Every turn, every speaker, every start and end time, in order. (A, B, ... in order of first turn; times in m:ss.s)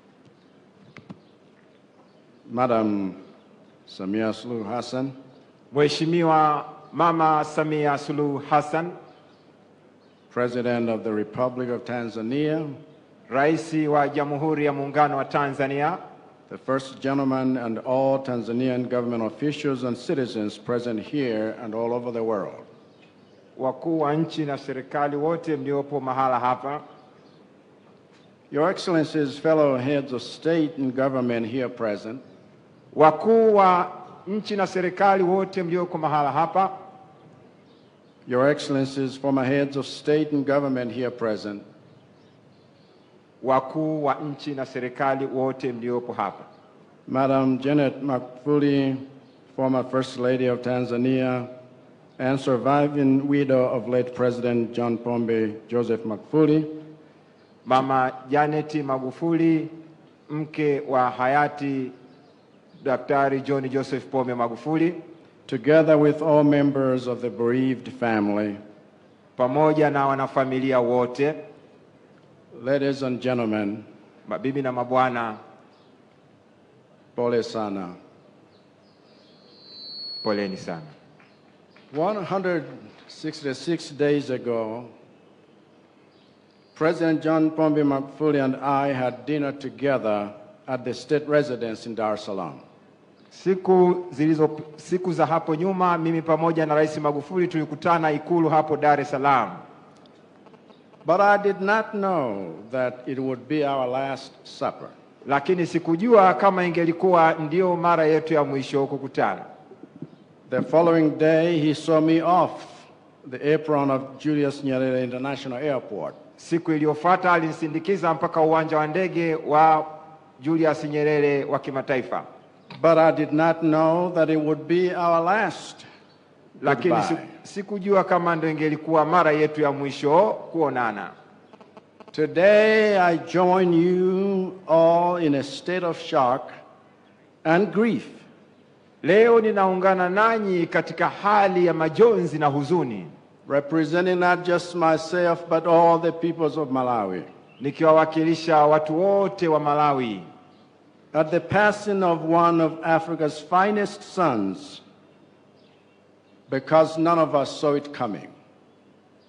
0:02.5-0:03.2 A
0:03.9-0:05.2 A
0:05.7-0:09.0 B
0:10.3-0:12.8 A
0:13.3-0:16.0 B
0:16.5-0:22.6 A
0:23.6-0:26.8 B
0:28.5-0:32.2 A
0:32.9-0:36.7 B
0:38.2-0:41.6 A
0:43.4-0:46.4 B
0:47.1-0:51.5 A
0:52.2-0:56.7 A
0:57.6-0:59.7 B
1:00.3-1:01.9 B
1:02.8-1:05.0 B
1:05.5-1:08.6 A
1:09.4-1:11.4 B
1:12.5-1:13.8 A
1:14.3-1:15.4 B
1:17.1-1:18.0 A
1:20.2-1:20.9 B
1:21.9-1:24.9 A
1:26.7-1:32.6 A
1:33.3-1:39.6 B
1:41.0-1:44.9 A
1:45.2-1:49.4 B
1:50.5-1:56.2 A
1:56.4-2:02.2 B
2:02.8-2:05.8 A
2:06.6-2:07.3 A
2:06.6-2:11.1 B
2:12.1-2:16.6 A
2:17.4-2:18.2 A
2:19.0-2:23.1 B
2:23.4-2:27.3 A
2:27.6-2:30.3 B
2:31.1-2:34.8 A
2:36.5-2:38.3 A